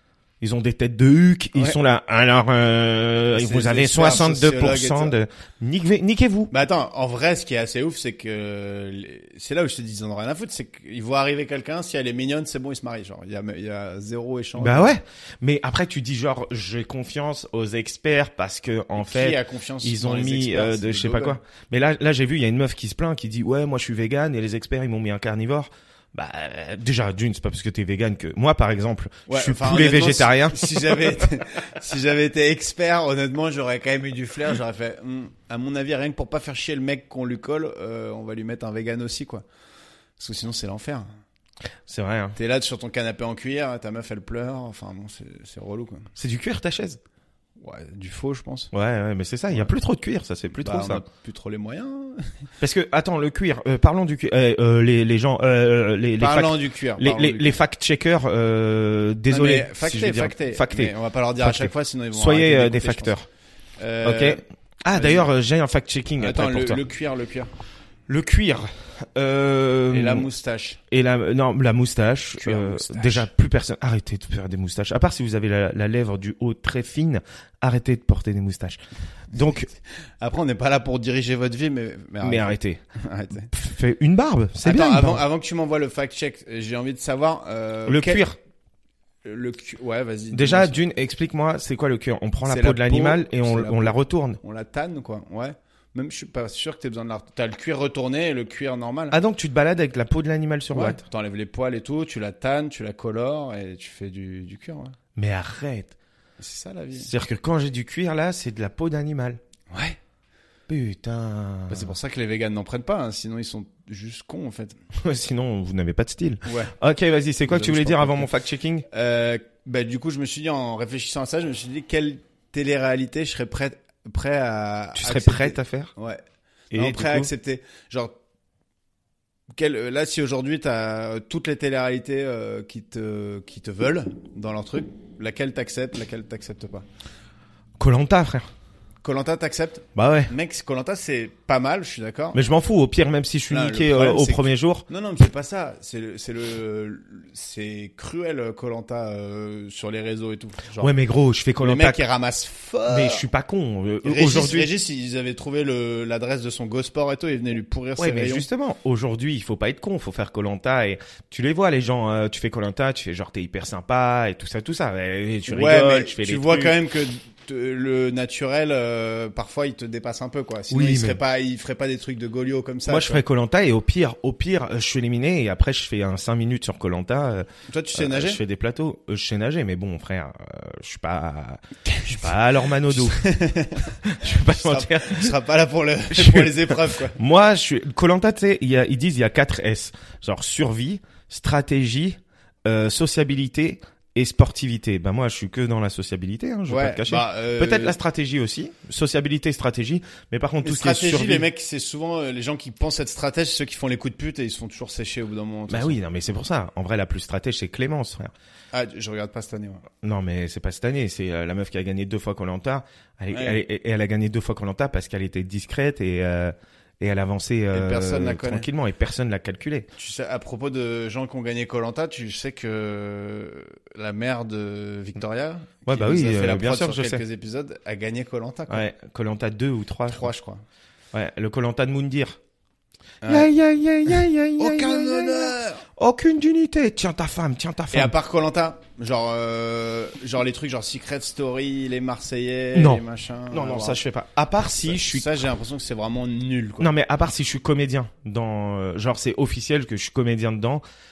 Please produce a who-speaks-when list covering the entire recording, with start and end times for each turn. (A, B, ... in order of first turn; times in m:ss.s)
0:00.4-0:06.5 A
0:03.3-0:05.2 B
0:06.5-0:15.0 B
0:14.6-0:31.2 A
0:19.0-0:21.4 B
0:29.3-0:39.4 B
0:40.2-0:41.1 B
0:41.9-0:42.4 A
0:42.4-0:46.1 B
0:46.2-0:47.0 A
0:47.6-0:48.7 B
0:48.7-0:51.0 A
0:50.6-0:52.3 B
0:52.6-1:03.3 A
0:56.2-0:57.6 B
0:59.3-1:03.1 B
1:03.8-1:04.4 B
1:04.0-1:06.8 A
1:04.9-1:05.3 B
1:06.2-1:07.5 B
1:08.1-1:10.2 A
1:09.9-1:10.8 B
1:10.9-1:18.8 A
1:12.4-1:13.3 B
1:19.3-1:19.7 A
1:20.2-1:23.5 B
1:22.2-1:22.8 A
1:23.5-1:25.2 A
1:24.6-1:28.2 B
1:27.9-1:28.4 A
1:29.2-1:30.8 B
1:30.3-1:34.4 A
1:32.4-1:39.2 B
1:39.1-1:41.0 A
1:40.7-1:44.9 B
1:45.2-1:45.9 A
1:46.4-1:47.1 B
1:47.0-1:49.4 A
1:49.7-1:50.0 B
1:50.7-1:51.9 A
1:51.7-1:54.8 B
1:54.9-1:58.8 A
1:56.4-1:56.7 B
1:57.5-1:58.3 B
1:58.9-2:06.2 B
2:04.9-2:05.9 A
2:06.7-2:07.3 A
2:06.7-2:08.2 B
2:09.5-2:16.8 B
2:17.8-2:18.5 A
2:19.0-2:22.4 B
2:20.0-2:20.3 A
2:22.3-2:24.8 A
2:23.5-2:30.9 B
2:30.8-2:32.0 A
2:31.6-2:33.2 B
2:32.9-2:34.7 A
2:34.0-2:38.4 B
2:38.0-2:46.8 A
2:45.5-2:53.2 B
2:50.7-2:51.2 A
2:52.9-3:03.2 A
2:57.7-2:58.4 B
3:01.8-3:02.3 B
3:02.9-3:07.2 B
3:04.0-3:05.3 A
3:06.1-3:21.5 A
3:16.7-3:18.0 B
3:20.6-3:26.0 B
3:25.7-3:28.3 A
3:28.7-3:29.8 B
3:30.0-3:39.9 A
3:33.3-3:33.6 B
3:37.7-3:38.7 B
3:40.0-3:48.8 B
3:45.9-3:47.2 A
3:48.7-3:50.3 A
3:50.1-3:50.6 B
3:51.1-3:52.4 A
3:53.2-3:53.5 B
3:53.3-3:58.1 A
3:54.6-3:55.8 B
3:57.9-4:04.0 B
4:02.7-4:05.3 A
4:04.8-4:06.9 B
4:06.8-4:10.8 A